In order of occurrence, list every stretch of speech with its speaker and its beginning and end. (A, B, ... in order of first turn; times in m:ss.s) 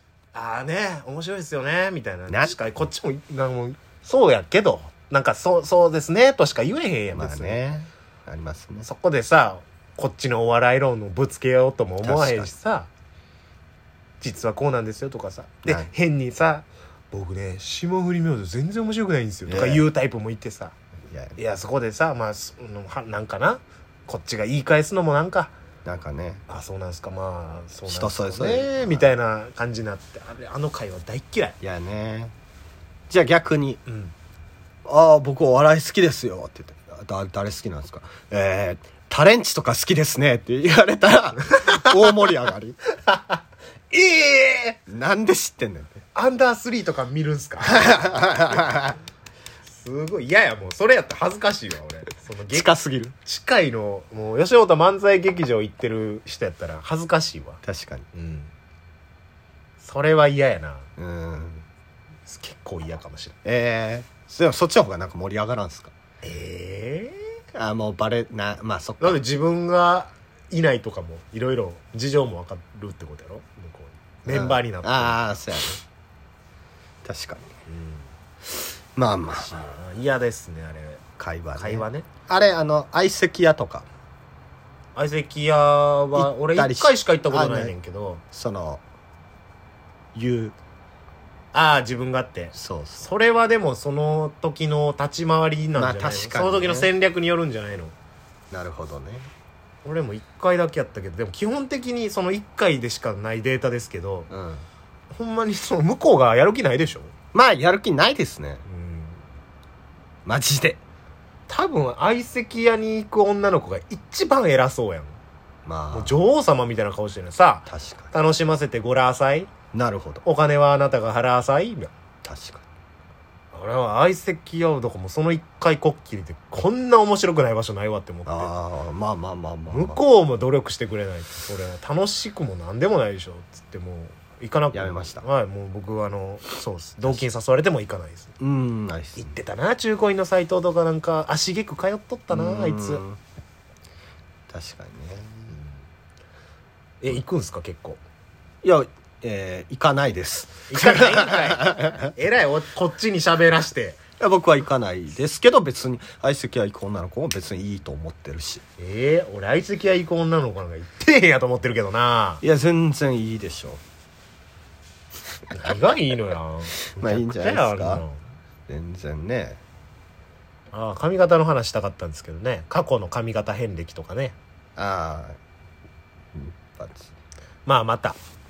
0:00.3-0:07.6 A
0:02.3-0:02.6 B
0:07.1-0:08.9 B
0:08.8-0:12.9 A
0:12.0-0:12.5 B
0:14.2-0:20.7 A
0:19.5-0:19.8 B
0:21.1-0:21.4 B
0:21.4-0:25.5 A
0:25.8-0:26.4 B
0:26.5-0:31.6 A
0:27.9-0:29.2 B
0:31.6-0:32.3 B
0:33.1-0:33.8 B
0:33.8-0:34.1 A
0:34.8-0:42.8 B
0:41.6-0:42.1 A
0:43.0-0:44.8 A
0:44.9-0:46.0 B
0:46.1-0:48.0 A
0:47.6-0:49.0 B
0:49.7-0:57.6 A
0:52.5-0:53.1 B
0:57.6-0:58.1 B
0:58.1-0:58.5 A
0:59.8-1:00.9 A
1:01.0-1:01.6 B
1:02.3-1:03.4 A
1:03.4-1:05.9 B
1:06.2-1:07.2 A
1:07.5-1:09.2 B
1:09.0-1:15.2 A
1:14.3-1:15.8 B
1:17.0-1:17.5 B
1:17.7-1:18.1 A
1:18.9-1:19.5 B
1:19.3-1:21.0 A
1:21.2-1:23.8 B
1:21.5-1:22.1 A
1:24.9-1:28.2 A
1:26.1-1:27.7 B
1:28.3-1:28.8 B
1:30.1-1:30.5 B
1:31.5-1:37.9 A
1:32.5-1:33.1 B
1:35.7-1:36.9 B
1:38.5-1:39.3 B
1:39.8-1:44.3 A
1:44.3-1:44.6 B
1:45.1-1:47.1 A
1:47.3-1:48.6 B
1:48.6-1:49.2 A
1:50.2-1:50.8 B
1:51.5-1:55.2 A
1:55.6-1:56.2 B
1:55.9-1:59.5 A
1:57.7-1:58.1 B
1:59.7-2:00.2 B
2:00.2-2:01.9 A
2:02.2-2:02.6 B
2:03.5-2:08.5 A
2:08.2-2:10.0 B
2:09.7-2:18.3 A
2:14.7-2:15.2 B
2:18.4-2:19.4 B
2:19.2-2:23.0 A
2:22.3-2:23.2 B
2:24.5-2:25.5 B
2:25.5-2:25.8 A
2:27.0-2:28.0 A
2:28.6-2:32.1 B
2:30.7-2:34.0 A
2:34.2-2:38.6 B
2:38.8-2:42.4 A
2:42.4-2:43.8 B
2:45.5-2:48.2 A
2:47.0-2:48.0 B
2:48.7-2:49.6 B
2:50.7-2:54.4 A
2:54.8-2:55.4 B
2:56.3-2:57.1 B
2:57.6-2:58.2 A